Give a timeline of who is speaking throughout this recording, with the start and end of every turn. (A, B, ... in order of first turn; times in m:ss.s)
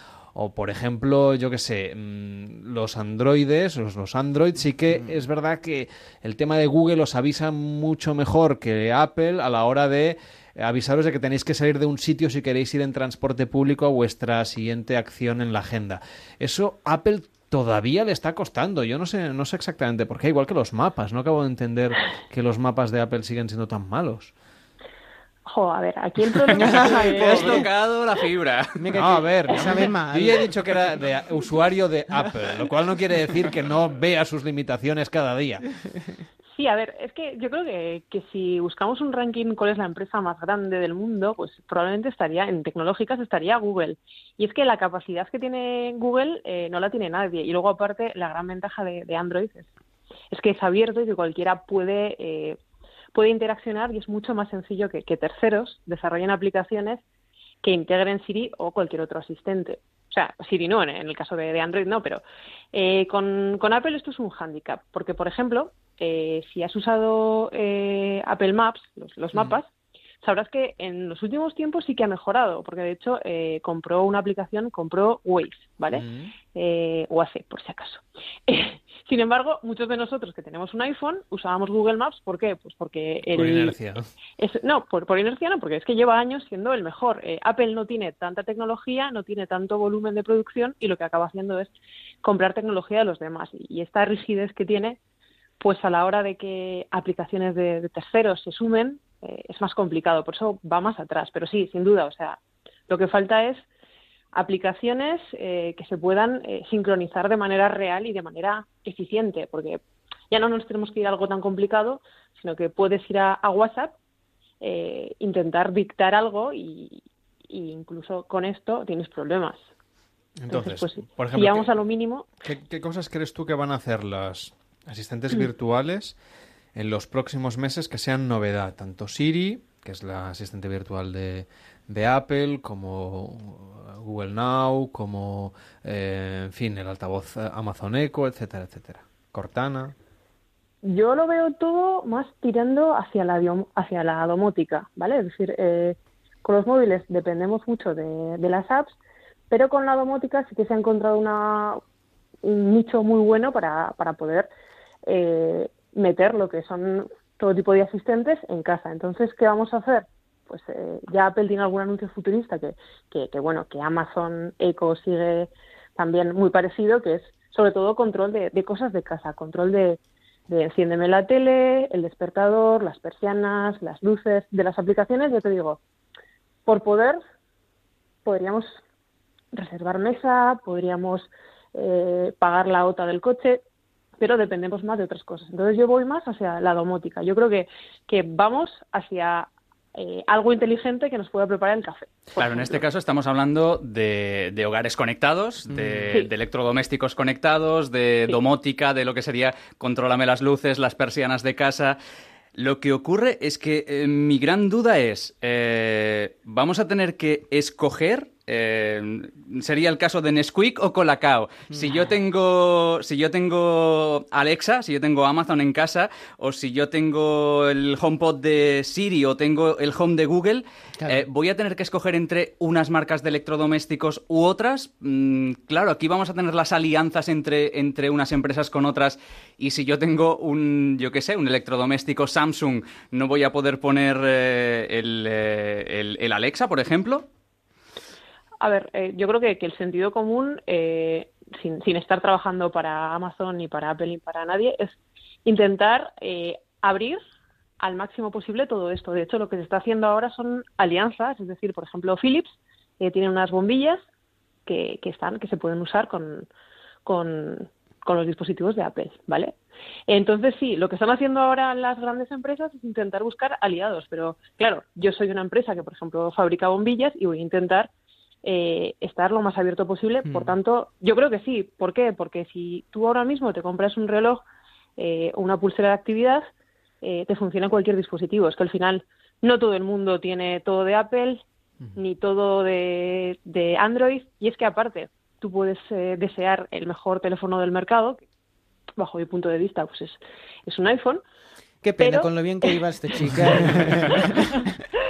0:00.3-0:24.3 A
0:25.5-0:27.6 B
0:26.5-0:29.0 C
0:26.6-0:27.6 D
0:28.8-0:30.6 D
0:29.0-0:35.7 A
0:36.5-0:49.7 B
0:50.3-0:52.6 B
0:53.2-0:57.0 B
0:57.6-1:02.2 B
1:02.7-1:09.7 B
1:10.2-1:23.8 B
1:15.9-1:16.3 A
1:23.3-1:24.0 A
1:24.4-1:31.7 B
1:32.2-1:35.0 B
1:35.6-1:43.6 B
1:44.3-1:54.0 B
1:54.6-1:59.6 B
2:00.4-2:01.8 A
2:00.5-2:02.3 B
2:02.4-2:06.2 A
2:06.8-2:19.9 A
2:20.8-2:29.0 B
2:29.5-2:31.8 B
2:32.4-2:34.5 B
2:35.1-2:55.8 B
2:56.7-2:57.2 B
2:58.2-2:58.8 B
2:59.5-3:03.6 B
3:04.2-3:12.8 B
3:12.4-3:22.0 C
3:15.7-3:16.1 A
3:22.6-3:57.3 C
3:31.7-3:32.1 D
3:58.6-4:07.2 B
4:07.8-4:14.0 B
4:14.7-4:16.5 B
4:17.0-4:19.6 B
4:20.1-4:27.9 B
4:28.4-4:34.4 B
4:30.3-4:30.6 D
4:35.0-4:36.4 B
4:37.0-4:41.4 B
4:42.0-4:48.2 B
4:49.0-4:51.2 B
4:51.8-4:54.8 D
4:52.0-4:52.8 B
4:54.1-4:54.6 B